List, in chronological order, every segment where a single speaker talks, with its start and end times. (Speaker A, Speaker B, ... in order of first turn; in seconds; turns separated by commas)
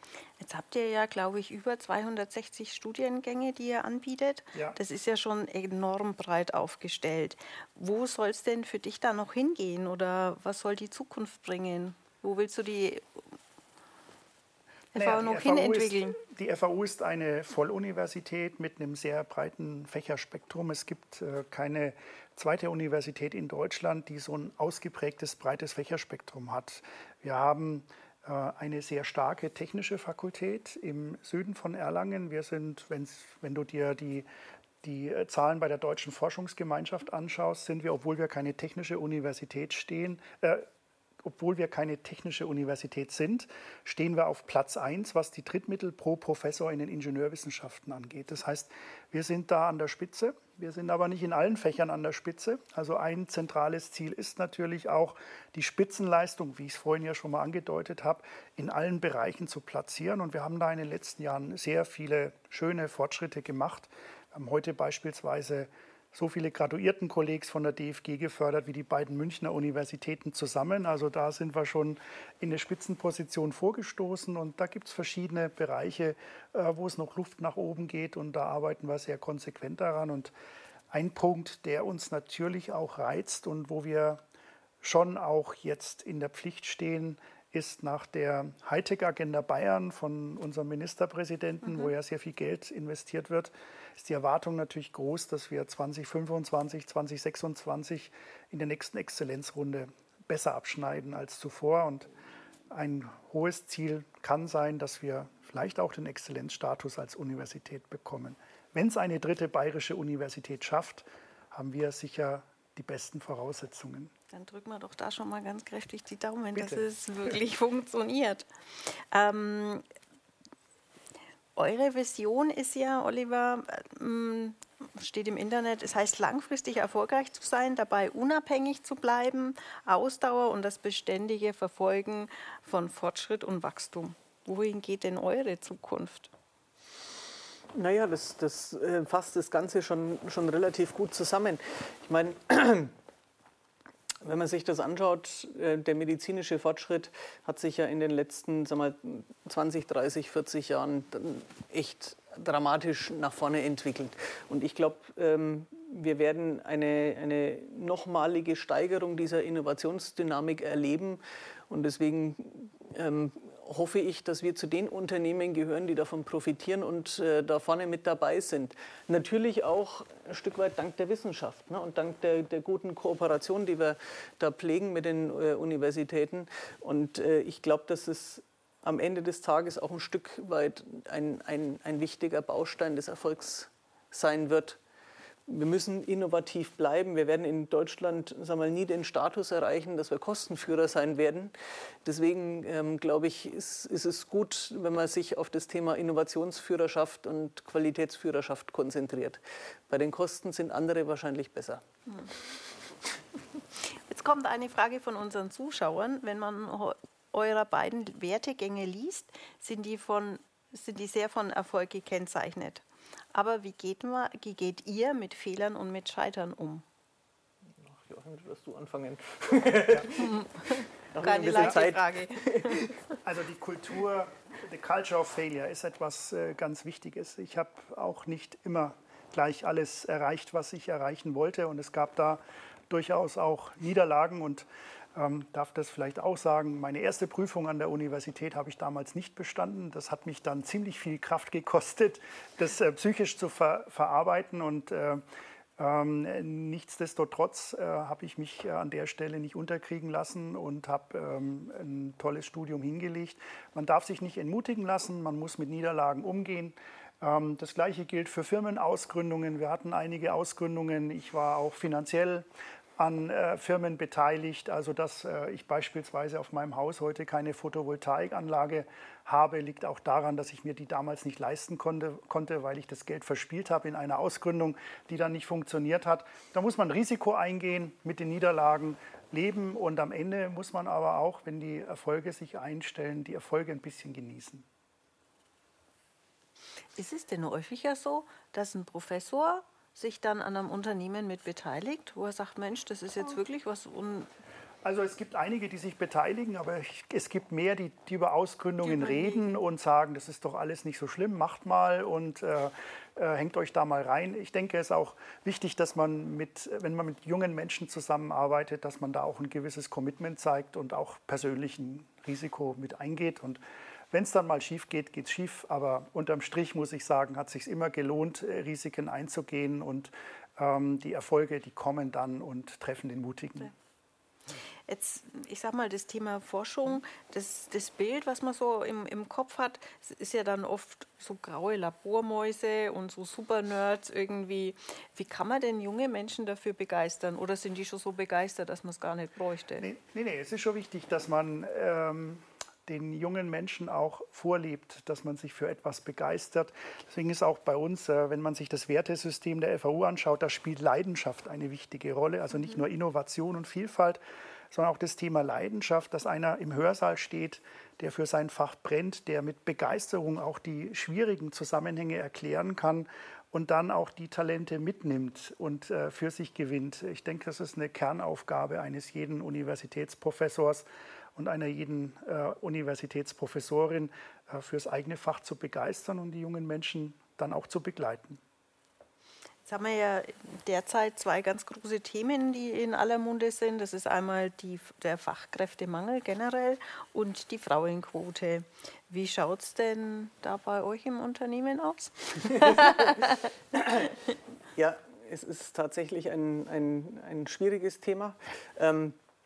Speaker A: 0.4-13.2, Speaker A: 14.9-16.2, Speaker B: 14.9-34.3, Speaker B: 34.8-40.7, Speaker B: 41.2-80.3, Speaker B: 80.9-84.2, Speaker B: 84.8-102.1, Speaker B: 102.7-114.1, Speaker A: 114.3-119.8, Speaker B: 116.5-116.8, Speaker A: 121.5-136.3, Speaker C: 137.7-142.9, Speaker C: 144.2-184.8, Speaker C: 185.5-191.5, Speaker C: 192.0-201.8, Speaker A: 203.9-216.8, Speaker C: 217.8-220.3, Speaker A: 220.2-222.9, Speaker C: 221.1-223.0, Speaker B: 223.2-245.2, Speaker B: 245.8-262.4, Speaker B: 263.0-284.6, Speaker A: 286.9-294.3, Speaker B: 294.8-313.6, Speaker A: 298.8-299.4, Speaker B: 314.1-323.7, Speaker A: 324.9-339.9, Speaker B: 339.8-354.2, Speaker B: 354.7-378.4, Speaker A: 379.6-393.4, Speaker C: 392.8-394.2, Speaker C: 394.8-399.2